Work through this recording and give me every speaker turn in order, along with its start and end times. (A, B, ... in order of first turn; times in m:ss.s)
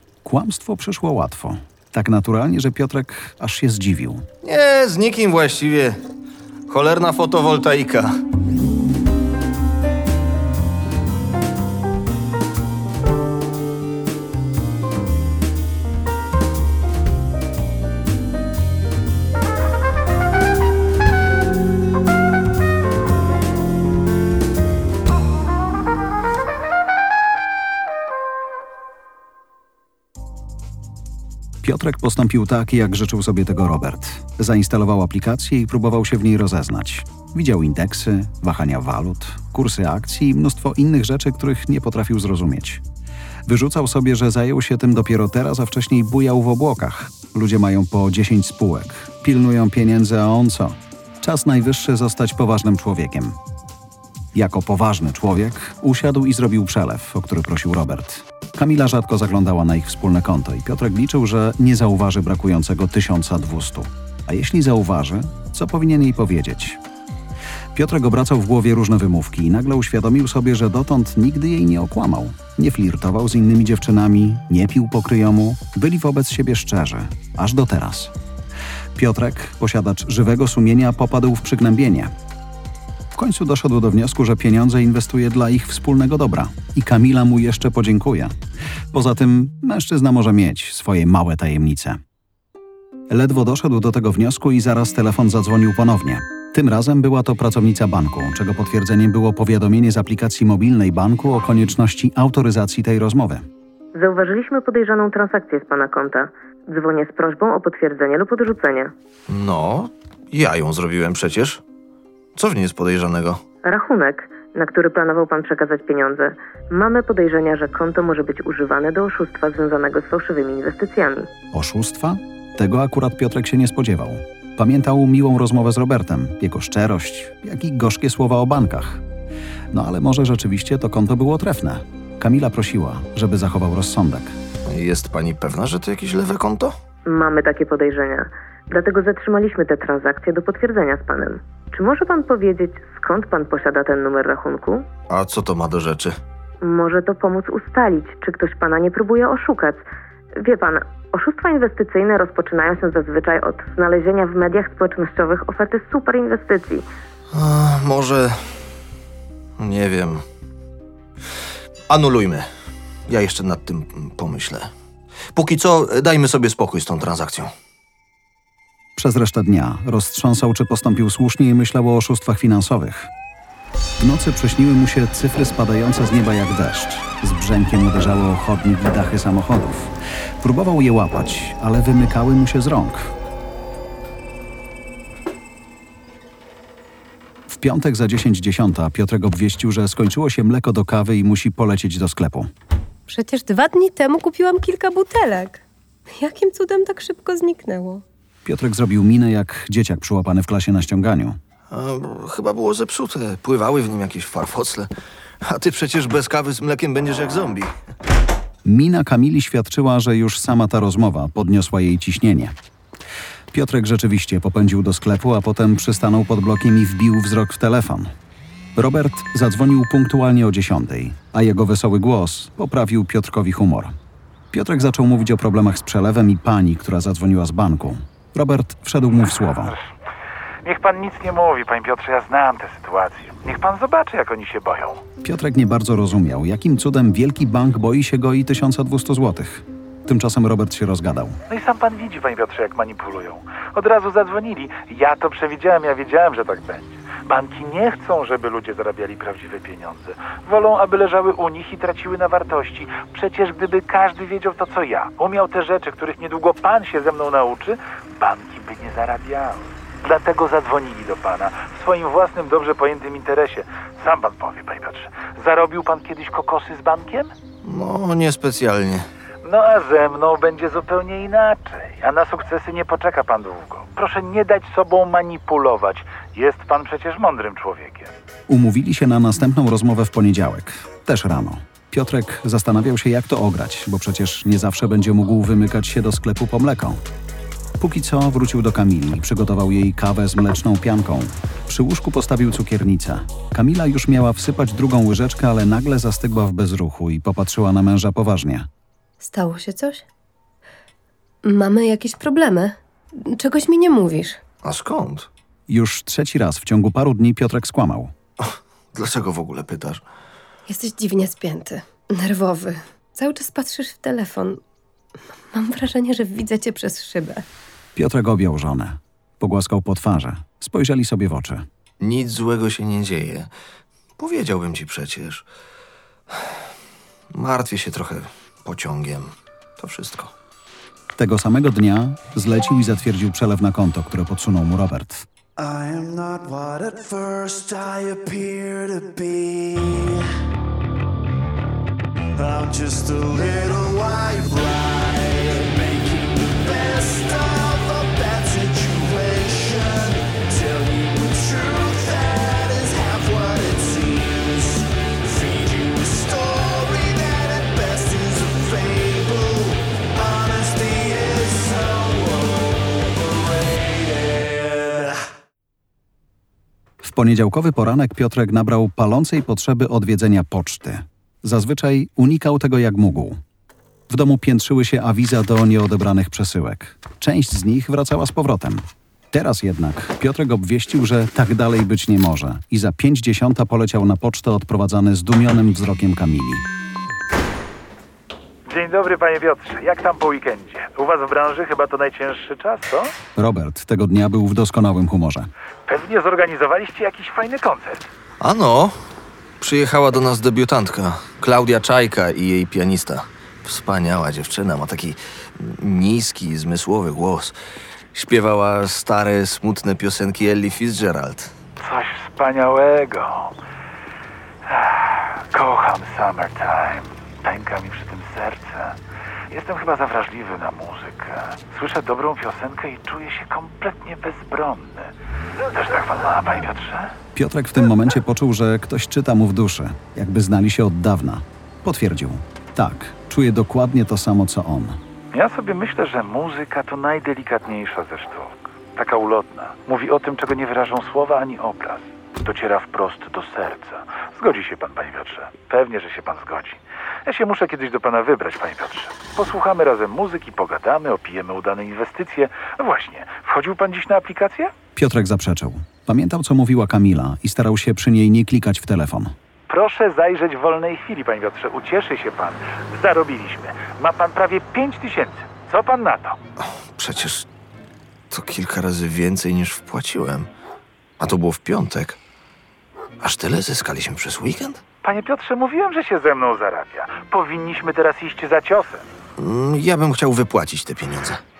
0:00.2-0:04.2 A
0:04.4-0:06.0 B
0:06.7-0:08.2 B
0:31.6-0:42.8 A
0:43.4-0:53.4 A
0:54.3-1:06.8 A
1:07.7-1:18.1 A
1:18.9-1:22.1 A
1:23.1-1:28.3 A
1:28.9-1:32.0 A
1:33.1-1:43.5 A
1:43.9-1:48.9 C
1:49.3-1:51.6 B
1:52.4-1:53.4 B
1:53.6-2:01.3 C
2:01.5-2:09.0 A
2:09.7-2:14.4 A
2:14.7-2:16.7 B
2:17.0-2:24.8 C
2:25.1-2:26.2 B
2:26.6-2:29.8 C
2:30.4-2:36.9 C
2:37.3-2:38.6 B
2:39.6-2:40.2 B
2:41.9-2:42.5 B
2:43.1-2:44.7 B
2:45.3-2:47.5 B
2:49.0-2:53.1 A
2:54.0-3:03.1 A
3:07.5-3:12.5 A
3:13.1-3:18.0 D
3:18.4-3:21.4 A
3:21.7-3:24.9 B
3:25.4-3:27.7 B
3:28.6-3:32.6 A
3:33.5-3:38.1 A
3:38.7-3:44.0 A
3:44.5-3:49.7 A
3:50.6-3:55.0 E
3:55.2-4:01.4 A
4:01.5-4:27.3 E
4:27.6-4:29.1 B
4:29.4-4:38.1 E
4:38.5-4:47.0 A
4:47.8-4:58.7 A
4:59.2-5:00.0 D
5:01.4-5:04.4 D
5:04.6-5:05.3 B
5:05.7-5:08.1 A
5:08.4-5:10.0 B
5:10.7-5:14.6 D
5:15.5-5:17.4 D
5:17.9-5:21.7 A
5:22.0-5:23.5 B
5:24.2-5:25.4 B
5:26.3-5:26.6 B
5:27.3-5:30.3 B
5:31.2-5:35.3 A
5:35.6-5:40.2 F
5:42.3-6:05.2 F
6:07.0-6:13.4 A
6:14.1-6:26.7 A
6:28.6-6:33.1 E
6:33.4-6:35.5 A
6:35.8-6:38.1 E
6:38.4-6:39.0 B
6:39.6-6:47.6 B
6:48.1-6:51.5 B
6:51.8-6:53.5 E
6:54.7-6:59.0 E
6:59.5-7:05.1 E
7:05.7-7:07.1 E
7:07.3-7:15.0 A
7:15.3-7:34.7 E
7:34.9-7:39.3 A
7:39.7-7:46.4 E
7:46.6-7:47.5 B
7:48.3-7:50.5 B
7:51.2-7:52.2 B
7:53.2-7:54.8 B
7:55.0-7:59.1 E
7:59.4-8:01.4 B